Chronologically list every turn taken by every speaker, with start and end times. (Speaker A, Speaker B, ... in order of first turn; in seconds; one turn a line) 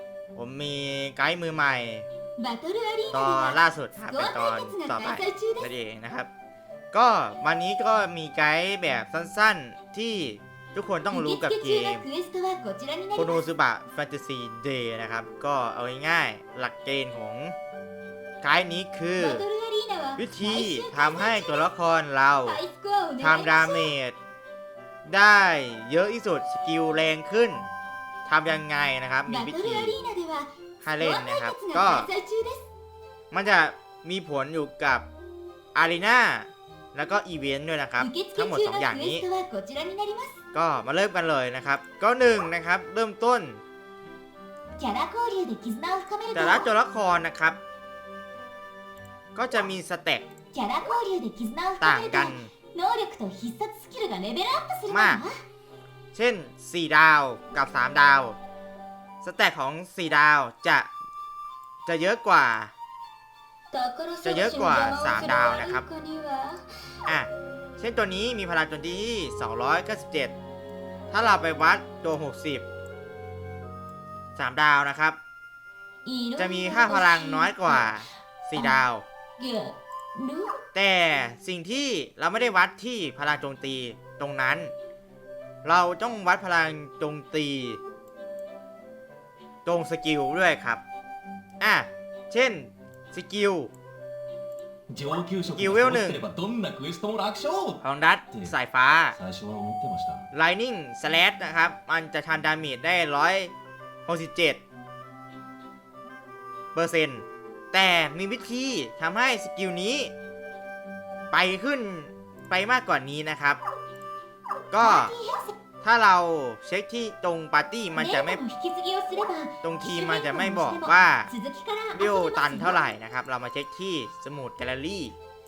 Speaker A: 0.3-2.0
Speaker B: 2.4-5.7
Speaker A: 3.1-6.3
Speaker A: 6.9-12.0
Speaker B: 11.1-13.4
Speaker A: 13.2-17.5
Speaker A: 18.4-19.4
Speaker B: 19.2-21.7
Speaker A: 20.2-22.6
Speaker B: 22.4-23.9
Speaker A: 23.2-24.1
Speaker A: 25.0-27.6
Speaker A: 28.2-30.0
Speaker B: 29.2-32.7
Speaker A: 30.8-32.1
Speaker A: 33.3-35.0
Speaker A: 35.7-39.2
Speaker B: 38.0-40.4
Speaker A: 40.5-43.6
Speaker B: 44.8-46.7
Speaker A: 46.3-47.6
Speaker A: 49.3-50.3
Speaker B: 50.5-55.4
Speaker A: 51.8-52.5
Speaker A: 54.9-55.2
Speaker A: 56.1-58.4
Speaker A: 59.2-60.9
Speaker A: 61.9-62.7
Speaker B: 63.7-66.6
Speaker A: 64.2-65.8
Speaker A: 67.0-70.3
Speaker A: 71.1-72.7
Speaker A: 74.3-75.2
Speaker B: 76.0-78.8
Speaker A: 76.4-79.0
Speaker B: 79.4-80.6
Speaker A: 80.7-84.7
Speaker A: 85.6-87.8
Speaker A: 89.6-90.8
Speaker A: 91.6-93.7
Speaker C: 94.9-97.8
Speaker A: 95.5-96.2
Speaker A: 97.8-99.2
Speaker C: 99.1-100.2
Speaker A: 100.3-103.5
Speaker A: 104.0-104.6
Speaker A: 106.7-110.1
Speaker A: 111.3-113.6
Speaker A: 114.7-115.1
Speaker B: 114.8-115.6
Speaker A: 115.8-118.4
Speaker B: 118.0-122.8
Speaker A: 119.6-121.3
Speaker A: 121.9-125.1